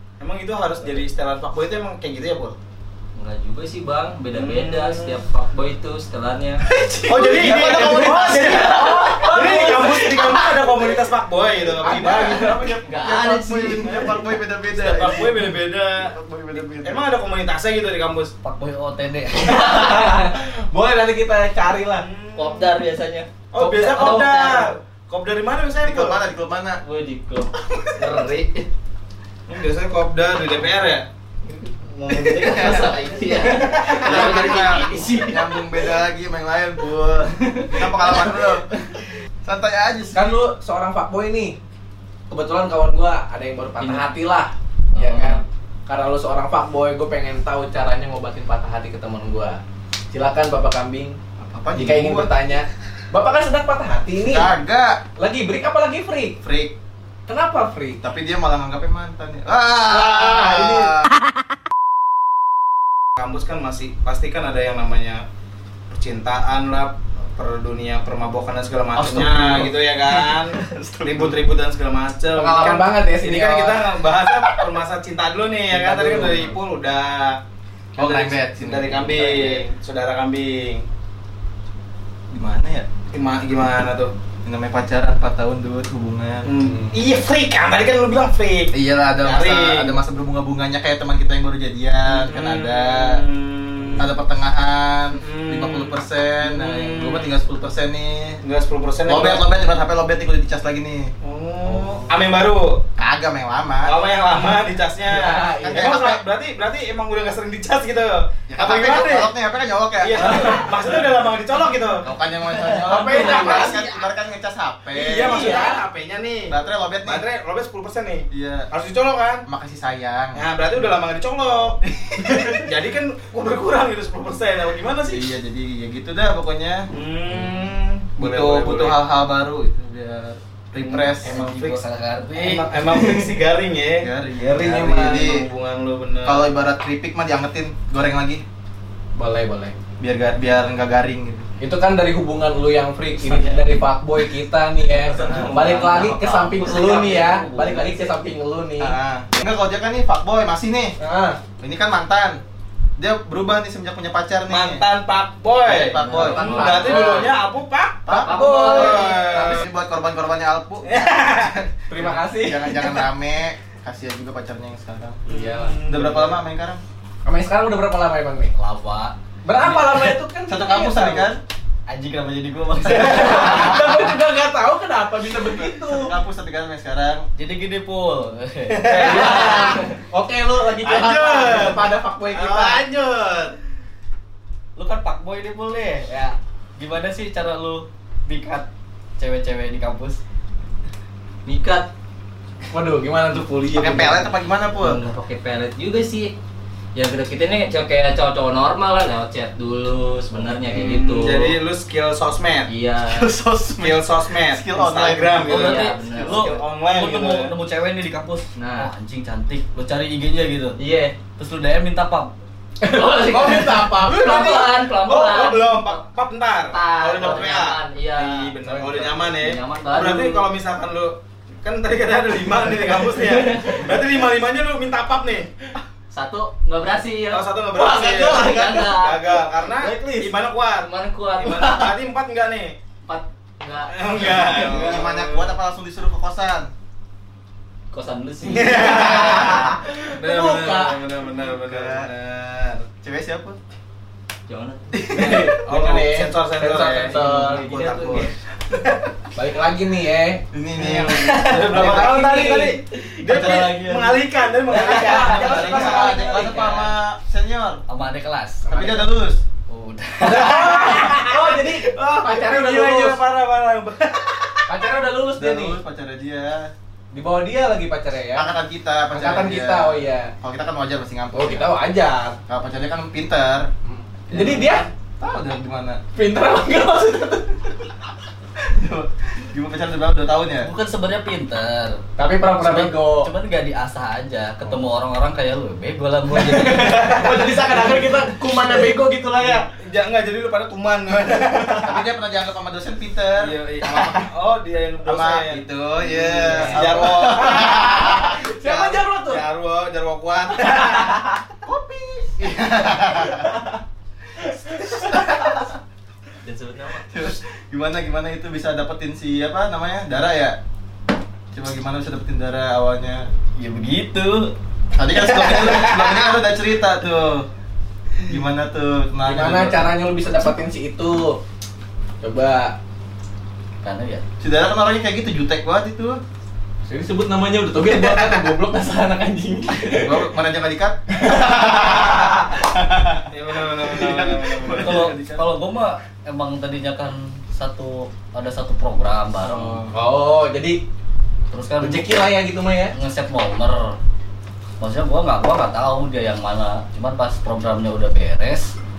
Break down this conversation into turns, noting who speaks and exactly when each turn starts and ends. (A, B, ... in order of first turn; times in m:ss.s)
0:00.2-0:02.6 A
0:03.2-0:06.6 B
0:04.3-0:05.2 A
0:07.0-0:09.1 C
0:07.1-0:12.6 A
0:07.2-0:10.4 D
0:08.4-0:09.6 E
0:11.8-0:12.9 D
0:11.9-0:15.4 C
0:12.6-0:14.2 E
0:14.7-0:16.1 A
0:16.0-0:17.0 C
0:16.8-0:18.3 A
0:18.4-0:20.2 E
0:19.4-0:22.1 D
0:21.9-0:22.7 A
0:22.4-0:24.7 B
0:23.5-0:26.2 A
0:25.8-0:26.8 C
0:26.8-0:28.7 B
0:29.5-0:31.1 A
0:31.5-0:35.8 B
0:32.1-0:33.1 C
0:32.6-0:32.8 A
0:33.2-0:33.8 E
0:33.8-0:34.5 A
0:33.9-0:38.7 C
0:39.4-0:40.4 C
0:40.1-0:41.6 D
0:42.3-0:49.6 D
0:43.8-0:44.1 B
0:45.0-0:45.4 E
0:50.1-0:51.2 D
0:51.4-0:52.3 C
0:51.7-0:54.5 D
0:54.2-0:55.0 C
0:55.2-0:56.4 D
0:56.4-0:56.7 C
0:57.3-0:58.0 D
0:58.0-1:01.1 C
0:59.9-1:01.0 D
1:03.2-1:05.2 A
1:05.9-1:17.4 A
1:09.0-1:11.4 C
1:12.3-1:13.8 D
1:15.7-1:16.6 D
1:18.0-1:19.6 C
1:18.0-1:20.9 A
1:22.3-1:22.9 C
1:23.1-1:24.1 A
1:24.4-1:26.6 C
1:26.4-1:29.9 A
1:26.6-1:27.0 D
1:28.7-1:33.2 C
1:32.1-1:34.1 A
1:34.0-1:38.4 C
1:35.2-1:37.3 A
1:38.4-1:39.5 A
1:39.1-1:41.1 C
1:41.2-1:42.8 A
1:41.7-1:42.1 D
1:43.0-1:44.0 C
1:43.8-1:49.3 A
1:45.0-1:46.0 D
1:45.6-1:46.2 C
1:48.5-1:50.7 C
1:50.0-1:52.1 A
1:50.2-1:50.8 D
1:52.0-1:55.6 C
1:52.7-1:53.9 D
1:53.0-1:53.8 A
1:54.9-1:56.5 A
1:55.0-1:55.8 D
1:56.5-1:57.2 C
1:57.0-1:59.4 A
1:58.3-1:58.7 C
1:59.4-2:00.5 C
2:00.4-2:05.3 A
2:01.8-2:02.6 C
2:05.1-2:07.5 C
2:06.9-2:09.0 A
2:08.2-2:11.4 C
2:10.8-2:11.8 A
2:11.1-2:13.0 E
2:12.4-2:16.5 A
2:14.0-2:15.5 C
2:16.2-2:18.4 C
2:19.2-2:19.8 D
2:20.0-2:21.5 C
2:21.6-2:29.0 D
2:23.2-2:23.8 E
2:25.0-2:28.1 E
2:25.2-2:25.5 C
2:25.2-2:25.7 A
2:25.5-2:27.0 B
2:28.8-2:31.0 C
2:31.0-2:31.4 D
2:31.6-2:32.4 C
2:33.0-2:34.8 C
2:34.5-2:39.6 A
2:35.6-2:36.7 C
2:36.1-2:37.3 B
2:36.2-2:37.3 D
2:38.1-2:45.2 C
2:38.1-2:39.3 B
2:38.3-2:39.0 D
2:40.8-2:41.6 A
2:41.9-2:43.1 D
2:45.3-2:46.0 D
2:45.3-2:46.4 A
2:45.9-2:46.8 C
2:47.2-2:48.5 D
2:48.6-2:50.1 E
2:49.4-2:51.3 D
2:50.5-2:51.4 C
2:51.9-2:54.1 E
2:52.9-2:56.1 D
2:55.5-2:57.2 C
2:57.4-3:00.0 E
2:58.7-2:59.8 A
2:58.9-3:02.9 D
3:00.7-3:03.6 A
3:04.8-3:08.7 E
3:09.2-3:10.2 E
3:11.5-3:11.9 B
3:12.7-3:14.2 D
3:13.7-3:15.0 C
3:14.8-3:16.3 B
3:17.0-3:21.6 B
3:20.7-3:22.7 A
3:22.7-3:23.3 B
3:23.0-3:25.8 C
3:23.8-3:27.5 A
3:25.4-3:26.6 B
3:25.4-3:30.8 E
3:28.6-3:28.9 B
3:30.8-3:31.2 B
3:31.4-3:32.3 E
3:32.8-3:34.4 D
3:32.8-3:36.0 B
3:34.0-3:45.5 A
3:36.7-3:38.6 B
3:37.2-3:37.5 E
3:38.7-3:40.0 E
3:39.4-3:40.4 B
3:43.3-3:43.8 B
3:46.1-3:49.5 B
3:47.3-3:52.8 A
3:48.2-3:48.9 D
3:49.8-3:50.3 D
3:50.8-3:51.9 B
3:53.1-3:54.9 B
3:53.9-3:55.5 A
3:54.5-3:56.7 C
3:57.9-3:59.6 B
3:58.4-4:02.9 A
3:58.7-4:01.0 D
4:01.4-4:02.1 C
4:03.0-4:03.6 C
4:04.5-4:05.0 B
4:04.9-4:05.5 C
4:05.1-4:07.7 D
4:05.1-4:09.0 A
4:07.0-4:08.3 B
4:09.4-4:10.4 D
4:10.5-4:12.5 C
4:10.9-4:16.9 E
4:10.9-4:16.2 A
4:11.7-4:12.8 D
4:13.3-4:13.8 C
4:14.7-4:16.8 D
4:14.7-4:17.8 C
4:17.9-4:19.1 E
4:18.7-4:19.1 D
4:18.7-4:19.4 C
4:19.7-4:21.2 E
4:20.2-4:23.2 D
4:20.5-4:24.9 A
4:24.7-4:25.8 D
4:25.4-4:26.7 C
4:27.1-4:28.5 D
4:28.4-4:31.7 C
4:29.1-4:30.3 D
4:31.3-4:32.4 D
4:32.5-4:33.7 C
4:33.8-4:34.9 D
4:34.3-4:36.0 C
4:36.2-4:37.9 D
4:38.6-4:40.7 C
4:40.6-4:42.0 E
4:42.2-4:43.3 D
4:42.6-4:47.2 E
4:46.3-4:49.7 D
4:47.0-4:48.0 A
4:49.4-4:52.0 A
4:51.8-4:54.3 C
4:53.4-5:01.2 A
4:55.0-4:58.4 C
4:56.3-4:59.4 D
5:00.8-5:01.2 D
5:01.6-5:03.6 C
5:03.3-5:03.8 D
5:04.4-5:05.6 D
5:04.7-5:05.8 C
5:06.5-5:07.0 E
5:07.1-5:10.6 C
5:11.5-5:13.3 C
5:13.6-5:14.5 E
5:15.0-5:17.5 C
5:18.3-5:19.9 C
5:19.2-5:21.4 D
5:22.2-5:22.8 D
5:23.8-5:24.2 E
5:24.4-5:26.2 C
5:26.9-5:30.3 D
5:28.0-5:28.3 C
5:29.9-5:35.4 C
5:31.2-5:32.5 D
5:33.3-5:35.2 A
5:34.7-5:39.8 E
5:39.4-5:39.9 C
5:39.9-5:40.8 D
5:41.5-5:42.3 E
5:41.8-5:43.0 D
5:42.9-5:44.0 E
5:44.8-5:48.7 E